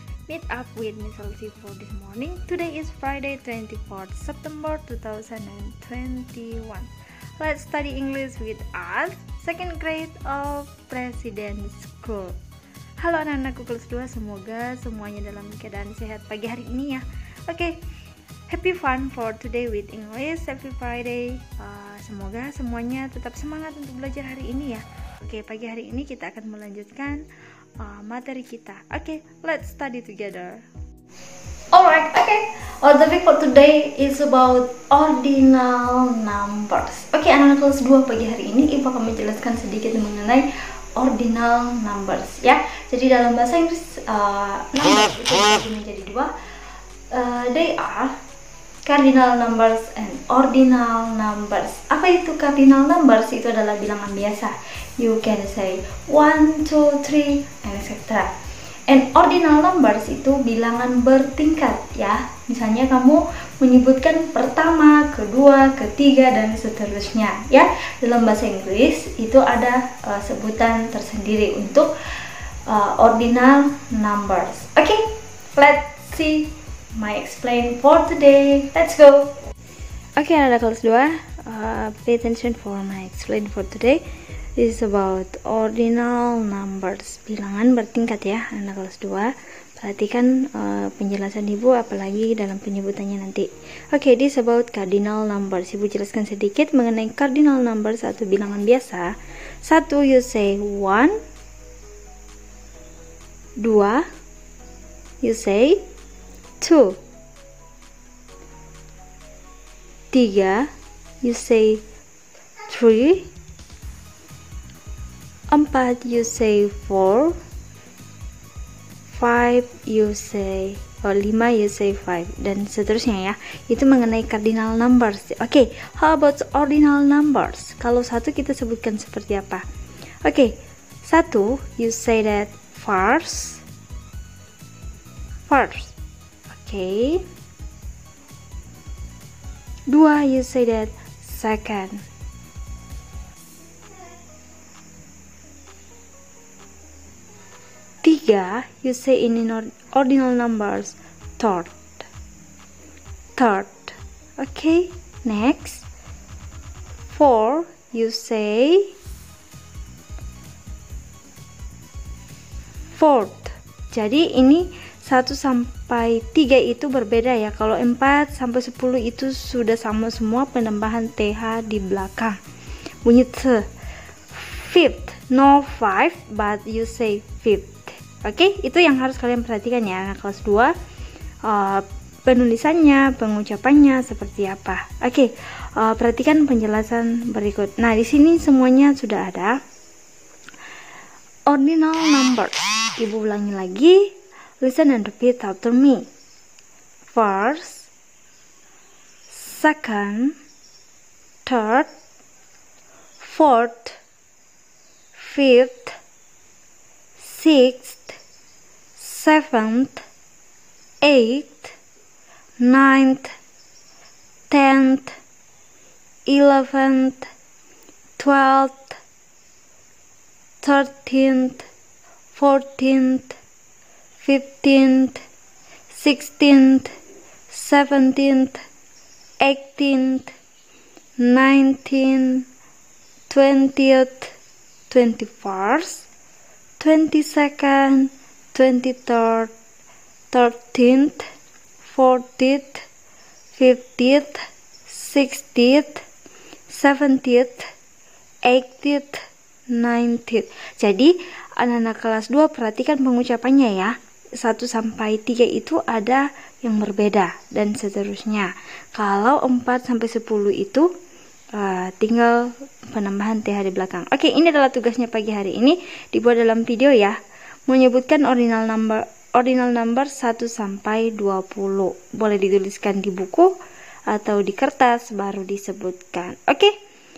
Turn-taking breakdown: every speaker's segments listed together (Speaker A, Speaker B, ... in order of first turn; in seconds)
Speaker A: 0.3-12.4, 13.0-17.8, 18.5-27.2, 27.8-30.6, 31.7-46.3, 47.1-48.1, 48.8-58.3, 58.9-71.9, 72.7-79.3, 80.2-84.0, 84.5-99.1, 99.6-101.2, 103.6-104.0, 105.2-105.8, 106.6-107.0, 110.1-110.7, 111.2-111.8, 112.7-113.3, 115.5-117.3, 119.1-129.6, 130.2-133.6, 135.5-135.9, 136.5-137.2, 139.9-142.0, 148.0-152.1, 153.3-155.8, 157.1-158.9, 162.9-172.4, 173.0-173.7, 174.3-180.7, 181.4-189.6, 191.5-196.1, 197.1-197.9, 199.3-200.3, 201.4-201.9, 203.2-204.0, 205.1-205.9, 207.2-208.2, 208.9-210.0, 211.0-211.8, 212.6-213.3, 214.5-215.1, 216.3-217.3, 218.2-219.0, 220.6-221.7, 222.3-223.4, 224.2-225.2, 225.9-226.9, 227.5-228.6, 229.4-230.3, 231.2-232.4, 233.3-234.3, 234.9-236.1, 236.8-239.5, 240.3-241.3, 241.8-242.8, 243.5-246.0, 246.7-247.7, 248.4-260.9, 261.5-267.2, 267.7-273.5, 274.1-276.7